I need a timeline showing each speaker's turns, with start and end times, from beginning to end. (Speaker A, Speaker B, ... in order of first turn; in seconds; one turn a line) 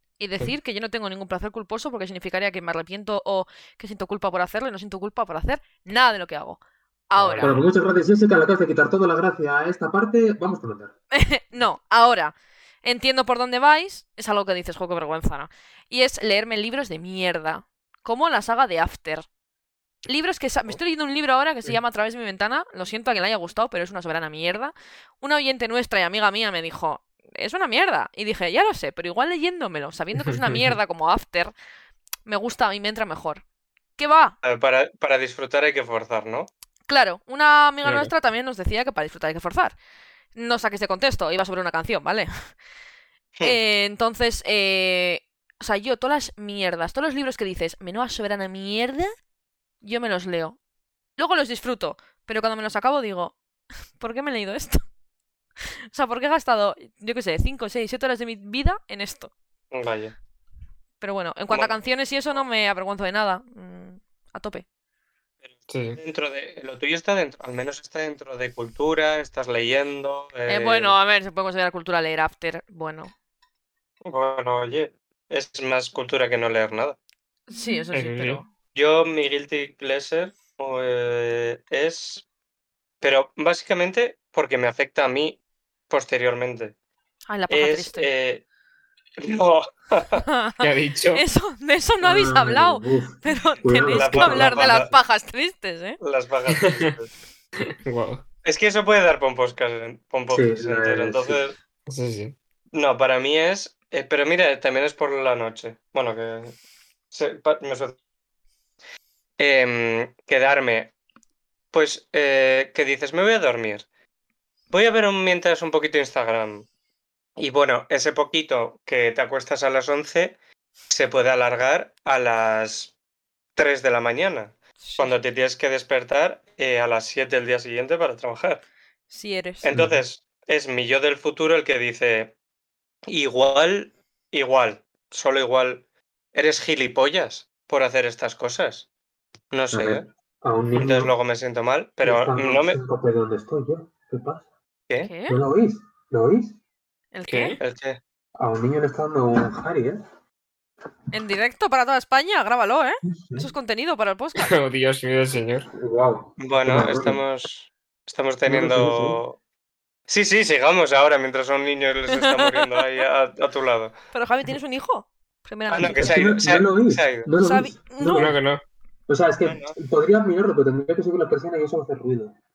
Speaker A: 0.2-7.6
Speaker B: 7.2-7.7
Speaker C: 7.4-10.9
Speaker A: 11.1-19.3
Speaker A: 20.1-31.5
Speaker A: 32.3-33.4
Speaker A: 34.0-34.4
Speaker D: 34.4-36.5
Speaker A: 36.9-39.8
Speaker B: 37.8-38.1
Speaker A: 40.4-42.3
Speaker A: 43.4-49.1
Speaker A: 49.8-50.6
Speaker A: 51.2-53.4
Speaker A: 54.0-54.8
Speaker A: 55.9-59.3
Speaker D: 59.7-60.1
Speaker A: 61.0-64.6
Speaker D: 61.5-62.4
Speaker D: 65.4-71.0
Speaker B: 65.7-66.0
Speaker A: 70.5-73.1
Speaker D: 74.1-77.0
Speaker A: 77.5-78.5
Speaker B: 77.9-78.4
Speaker D: 78.8-82.2
Speaker D: 83.0-86.7
Speaker A: 87.3-88.1
Speaker D: 87.5-88.4
Speaker D: 89.2-90.2
Speaker A: 90.2-96.0
Speaker B: 90.6-91.2
Speaker C: 92.0-94.9
Speaker D: 93.9-94.9
Speaker D: 96.0-97.1
Speaker B: 96.6-96.9
Speaker B: 97.6-98.2
Speaker D: 98.4-101.6
Speaker C: 100.3-101.4
Speaker B: 101.9-102.4
Speaker D: 102.7-106.5
Speaker D: 107.1-108.0
Speaker D: 109.4-110.9
Speaker D: 111.7-113.8
Speaker D: 114.7-116.7
Speaker D: 117.4-120.4
Speaker D: 120.9-122.9
Speaker D: 123.6-128.6
Speaker A: 124.8-125.2
Speaker A: 129.1-129.7
Speaker D: 129.6-132.3
Speaker C: 129.7-130.0
Speaker D: 133.1-138.9
Speaker D: 139.5-140.1
Speaker C: 139.7-141.1
Speaker D: 140.7-142.8
Speaker C: 142.0-144.5
Speaker A: 145.0-145.4
Speaker C: 145.3-146.6
Speaker A: 147.1-147.6
Speaker B: 147.3-147.6
Speaker D: 147.6-148.0
Speaker C: 148.4-150.0
Speaker A: 151.1-154.5
Speaker C: 153.1-153.5
Speaker B: 154.4-155.7
Speaker C: 155.7-157.2
Speaker D: 156.4-159.4
Speaker C: 158.5-159.2
Speaker D: 160.1-163.9
Speaker A: 162.1-163.0
Speaker A: 164.1-166.3
Speaker D: 165.7-167.3
Speaker C: 165.8-168.3
Speaker A: 167.4-168.3
Speaker B: 168.1-168.6
Speaker C: 169.1-172.3
Speaker D: 169.4-169.8